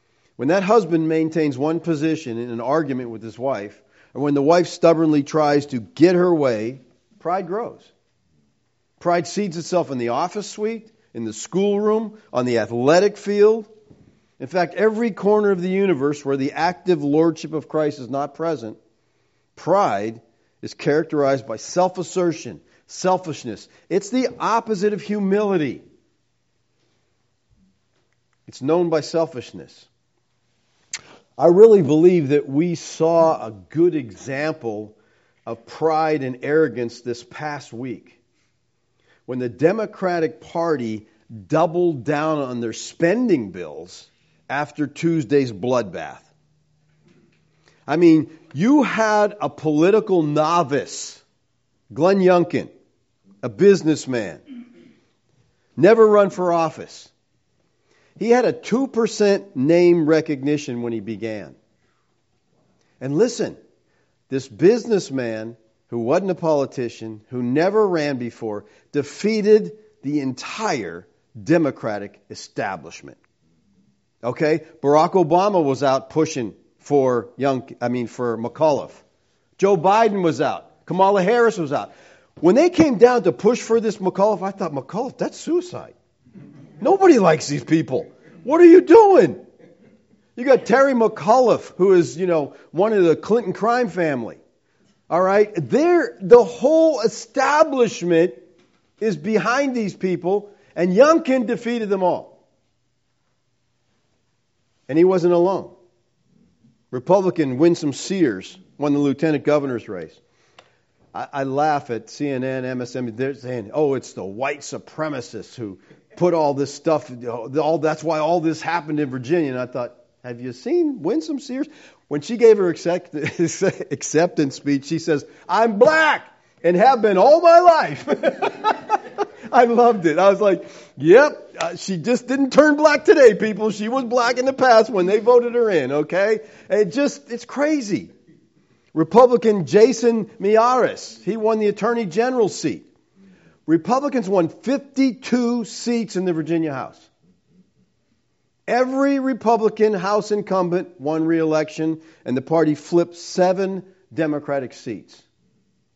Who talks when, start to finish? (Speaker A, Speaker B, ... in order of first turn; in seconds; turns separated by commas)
Speaker A: 0.4-7.9, Speaker A: 9.0-13.7, Speaker A: 14.4-18.8, Speaker A: 19.6-25.8, Speaker A: 28.5-29.9, Speaker A: 31.4-38.2, Speaker A: 39.3-46.3, Speaker A: 47.9-51.2, Speaker A: 51.9-52.7, Speaker A: 53.4-54.4, Speaker A: 55.8-57.1, Speaker A: 58.2-61.6, Speaker A: 63.0-63.6, Speaker A: 64.3-73.2, Speaker A: 74.2-79.0, Speaker A: 79.6-85.9, Speaker A: 86.8-89.4, Speaker A: 90.4-94.4, Speaker A: 95.1-98.4, Speaker A: 99.0-102.4, Speaker A: 104.9-105.7, Speaker A: 106.9-110.2, Speaker A: 111.1-138.1, Speaker A: 138.9-142.9, Speaker A: 143.7-147.1, Speaker A: 148.7-155.2